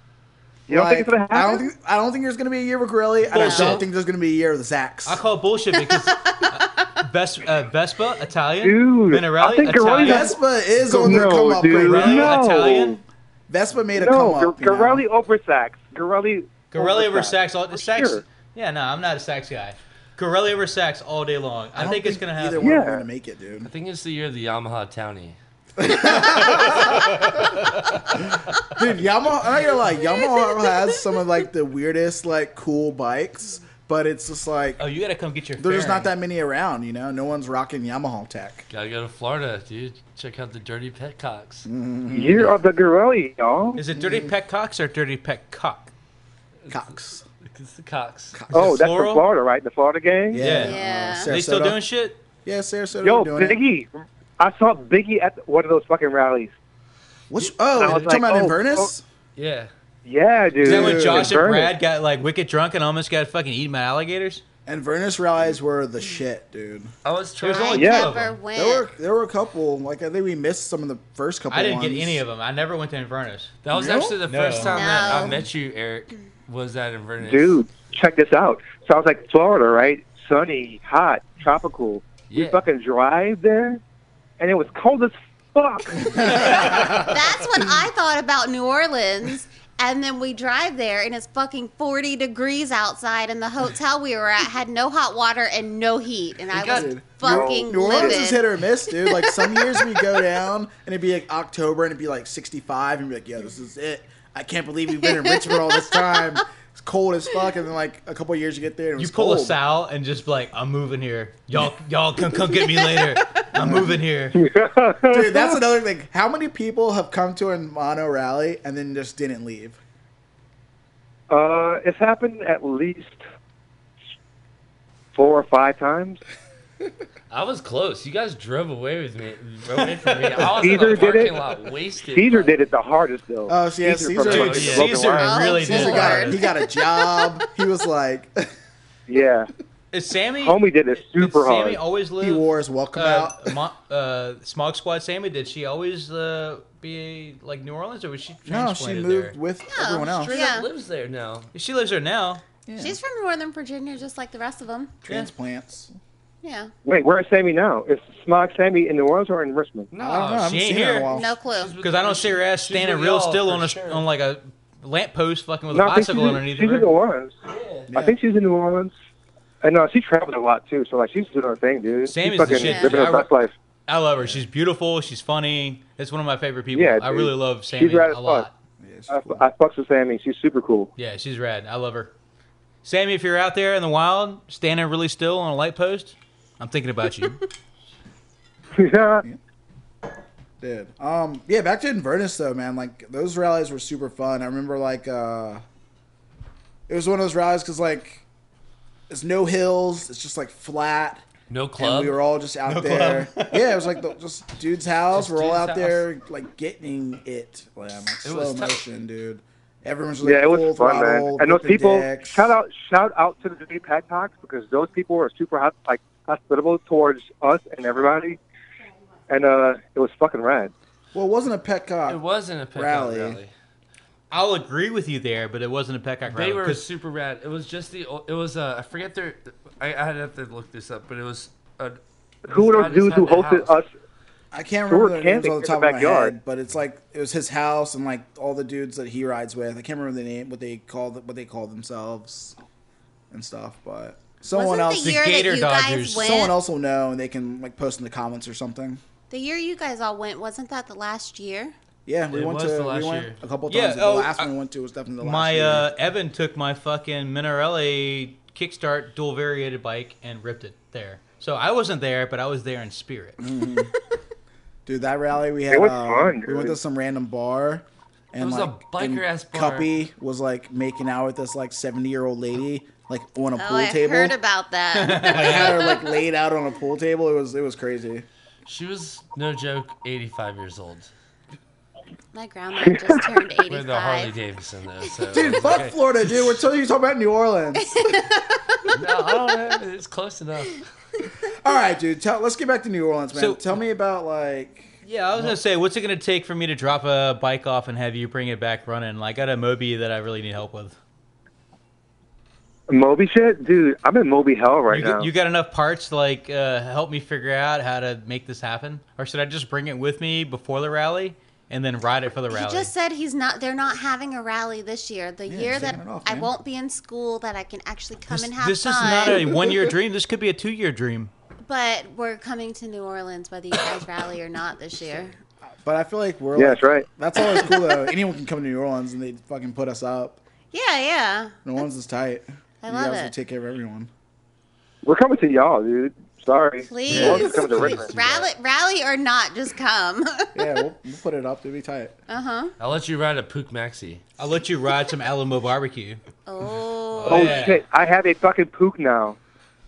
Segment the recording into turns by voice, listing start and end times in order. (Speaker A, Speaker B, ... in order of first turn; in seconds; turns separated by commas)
Speaker A: 0.7-1.7, Speaker B: 0.7-5.2, Speaker C: 3.3-3.8, Speaker C: 5.0-13.0, Speaker A: 8.6-10.3, Speaker B: 10.0-12.4, Speaker A: 10.9-13.0, Speaker B: 13.5-15.0, Speaker A: 13.9-18.2, Speaker C: 16.7-22.7, Speaker B: 21.7-23.7, Speaker A: 22.6-23.0, Speaker D: 23.6-25.4, Speaker B: 25.8-27.4, Speaker C: 26.1-28.1, Speaker B: 28.1-34.8, Speaker C: 34.8-36.1, Speaker B: 35.6-38.6, Speaker D: 38.7-41.7, Speaker B: 41.6-42.5, Speaker A: 42.1-43.8, Speaker C: 43.8-45.9, Speaker B: 43.9-44.3, Speaker D: 46.6-46.9, Speaker B: 46.7-47.2, Speaker D: 47.4-48.4, Speaker B: 48.3-48.7, Speaker C: 48.5-49.2, Speaker A: 48.5-50.5, Speaker B: 50.3-51.8, Speaker C: 50.4-52.2, Speaker E: 50.5-51.3, Speaker B: 52.4-53.6, Speaker A: 53.0-56.5, Speaker B: 57.3-59.0, Speaker A: 57.7-58.9, Speaker D: 59.4-59.7, Speaker A: 60.0-61.7, Speaker B: 60.6-61.3, Speaker C: 60.6-64.4, Speaker B: 64.7-66.9, Speaker D: 67.0-68.2, Speaker C: 67.4-68.3, Speaker E: 67.5-68.8, Speaker A: 67.7-68.1, Speaker B: 68.5-72.2, Speaker C: 71.5-73.5, Speaker D: 73.6-77.6, Speaker B: 73.7-74.2, Speaker C: 74.3-74.8, Speaker E: 74.6-75.4, Speaker B: 75.0-75.4, Speaker A: 77.2-83.8, Speaker D: 82.3-82.6, Speaker A: 84.4-86.6, Speaker B: 86.2-87.1, Speaker E: 86.3-98.4, Speaker D: 96.5-96.9, Speaker B: 96.6-109.6, Speaker A: 97.2-98.2, Speaker E: 99.0-100.0, Speaker E: 105.0-106.0, Speaker C: 109.0-114.4, Speaker E: 112.8-113.2, Speaker B: 113.6-114.0, Speaker A: 114.3-115.6, Speaker B: 115.1-119.8, Speaker A: 121.3-123.2, Speaker A: 125.1-126.2, Speaker D: 127.3-132.7, Speaker B: 129.8-130.4, Speaker A: 130.5-131.4, Speaker A: 132.0-136.0, Speaker B: 133.5-134.9, Speaker D: 134.2-135.0, Speaker C: 134.2-136.4, Speaker E: 135.1-137.4, Speaker B: 135.5-138.5, Speaker A: 139.1-139.5, Speaker C: 139.9-149.4, Speaker A: 140.4-141.8, Speaker B: 142.2-143.6, Speaker B: 148.4-150.4, Speaker E: 149.7-150.7, Speaker D: 150.0-151.5, Speaker C: 151.5-152.4, Speaker B: 152.7-153.0, Speaker E: 152.8-154.9, Speaker B: 155.0-155.9, Speaker E: 156.4-156.7, Speaker A: 156.8-159.9, Speaker D: 159.9-160.7, Speaker B: 160.0-161.3, Speaker C: 160.5-161.1, Speaker E: 161.1-161.7, Speaker D: 161.4-164.0, Speaker C: 161.8-166.9, Speaker A: 165.7-167.3, Speaker D: 167.4-167.9, Speaker B: 167.9-168.2, Speaker A: 167.9-168.9, Speaker A: 169.6-173.5, Speaker C: 172.1-173.3, Speaker E: 172.5-173.0, Speaker C: 173.9-178.5, Speaker B: 174.2-174.4, Speaker A: 176.7-178.5, Speaker B: 178.8-179.4, Speaker A: 179.1-180.9, Speaker C: 180.9-182.1, Speaker C: 182.8-187.4, Speaker A: 188.7-189.2, Speaker B: 190.6-195.6, Speaker B: 196.9-198.2, Speaker B: 199.1-201.2, Speaker D: 201.5-202.2, Speaker B: 201.8-212.4, Speaker C: 202.7-203.9, Speaker D: 205.1-206.1, Speaker D: 208.2-208.8, Speaker A: 210.2-218.4, Speaker A: 219.3-220.7, Speaker B: 221.1-222.2, Speaker D: 222.1-223.5, Speaker B: 222.7-223.4, Speaker C: 224.3-226.8, Speaker D: 226.3-233.8, Speaker A: 232.5-233.9, Speaker B: 234.5-242.5, Speaker A: 234.9-236.3, Speaker B: 243.3-245.2, Speaker E: 244.5-246.6, Speaker C: 245.0-246.3, Speaker B: 246.2-249.0, Speaker E: 249.3-251.7, Speaker B: 252.1-255.9, Speaker D: 252.3-253.4, Speaker C: 253.7-254.5, Speaker C: 255.2-263.5, Speaker B: 263.4-263.9, Speaker B: 264.9-274.3, Speaker A: 265.7-266.8, Speaker D: 268.4-269.9, Speaker E: 273.6-276.1, Speaker C: 274.9-275.9, Speaker B: 275.2-278.2, Speaker D: 278.6-281.1, Speaker E: 282.3-284.3, Speaker A: 282.9-283.2, Speaker D: 283.7-286.6, Speaker B: 285.3-288.0, Speaker E: 288.1-288.3, Speaker D: 288.9-290.9, Speaker B: 291.5-295.6, Speaker C: 293.3-293.6, Speaker C: 295.0-300.9, Speaker A: 302.9-305.3, Speaker C: 304.9-312.9, Speaker E: 312.5-319.6, Speaker B: 315.5-316.5, Speaker C: 318.3-321.3, Speaker E: 321.6-325.3, Speaker B: 325.8-330.4, Speaker A: 326.5-327.1, Speaker E: 330.7-331.6, Speaker B: 331.6-334.1, Speaker E: 332.8-333.3, Speaker A: 335.0-338.1, Speaker E: 336.9-340.6, Speaker D: 337.1-338.5, Speaker B: 337.1-337.9, Speaker B: 340.5-342.1, Speaker E: 342.3-342.7, Speaker D: 342.8-344.2, Speaker C: 344.4-346.2, Speaker E: 346.4-347.6, Speaker C: 347.1-347.8, Speaker A: 347.3-349.4